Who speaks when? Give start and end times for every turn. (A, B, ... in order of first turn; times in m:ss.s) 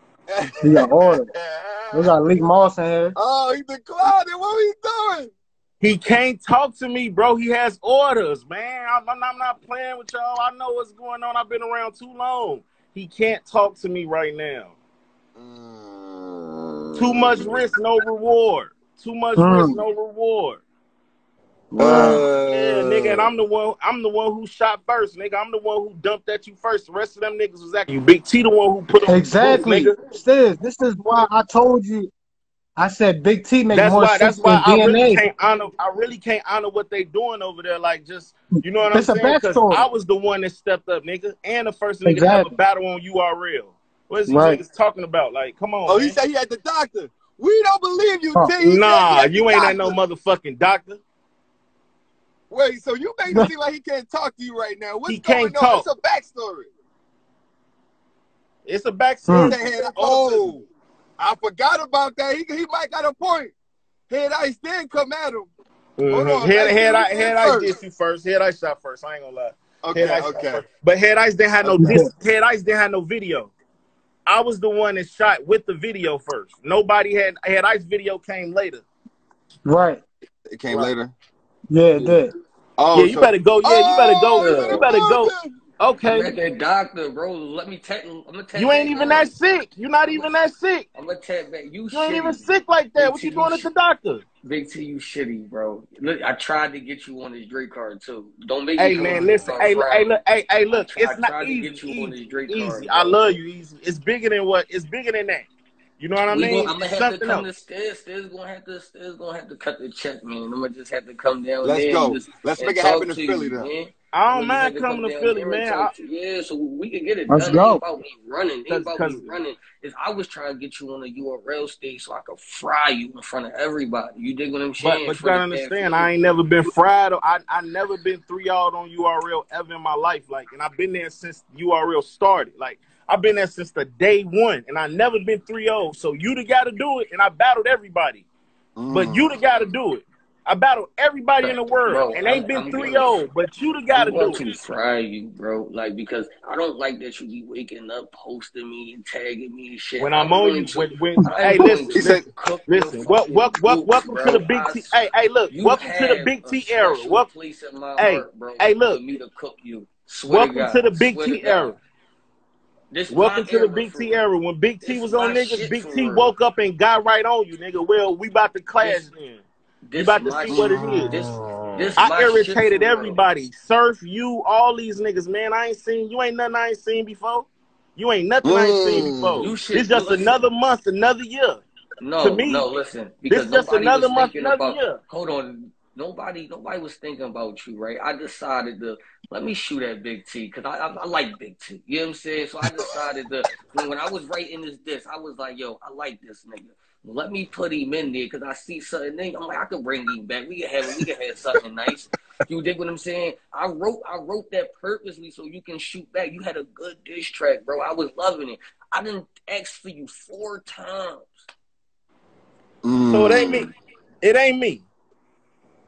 0:00.3-0:02.1 A
0:00.6-0:01.3 B
0:01.9-0:03.1 B
0:03.2-0:05.3 A
0:05.8-0:14.7 C
0:15.4-0:17.6 A
0:17.0-0:20.6 C
0:19.4-0:19.8 B
0:21.7-0:22.2 D
0:21.8-0:23.3 A
0:22.5-0:29.9 C
0:29.0-0:32.1 B
0:32.8-0:35.2 B
0:33.7-0:46.2 C
0:38.9-0:39.9 B
0:42.0-0:42.5 B
0:44.3-0:44.6 B
0:45.9-0:50.0 A
0:48.6-0:51.0 C
0:52.5-0:56.7 A
0:55.1-0:55.9 C
0:58.6-1:00.5 C
0:59.3-0:59.6 B
0:59.4-1:00.6 A
1:01.2-1:03.5 A
1:04.1-1:05.5 A
1:06.0-1:13.5 C
1:06.1-1:07.7 A
1:09.8-1:10.6 A
1:11.6-1:12.0 A
1:11.8-1:12.1 B
1:14.3-1:18.8 C
1:19.6-1:20.0 B
1:20.5-1:21.1 A
1:21.7-1:22.3 B
1:22.8-1:25.5 A
1:22.9-1:26.3 C
1:24.4-1:24.9 D
1:26.0-1:29.3 D
1:28.5-1:30.8 C
1:30.0-1:30.3 D
1:30.9-1:33.7 D
1:31.9-1:34.2 C
1:34.4-1:40.2 D
1:38.8-1:45.5 C
1:40.7-1:43.4 D
1:46.0-1:47.5 C
1:46.3-2:06.1 D
1:51.6-1:53.7 A
1:54.1-1:55.9 C
1:57.3-1:57.8 B
1:58.7-1:59.3 C
2:04.8-2:18.2 C
2:18.8-2:19.3 A
2:18.9-2:24.4 C
2:21.4-2:23.2 D
2:23.9-2:41.8 D
2:30.0-2:37.3 C
2:31.9-2:32.2 A
2:38.0-2:39.0 C
2:40.3-2:41.7 C
2:42.9-2:44.3 D
2:43.1-2:49.4 C
2:44.8-2:46.3 D
2:48.8-2:49.1 D
2:49.8-2:53.2 D
2:50.0-2:51.2 C
2:50.5-2:51.9 A
2:52.0-3:01.6 C
2:58.4-2:59.5 A
2:59.4-3:00.4 D
3:02.0-3:31.4 D
3:02.2-3:02.7 C
3:03.3-3:05.0 C
3:32.8-3:33.7 A
3:33.1-3:34.8 C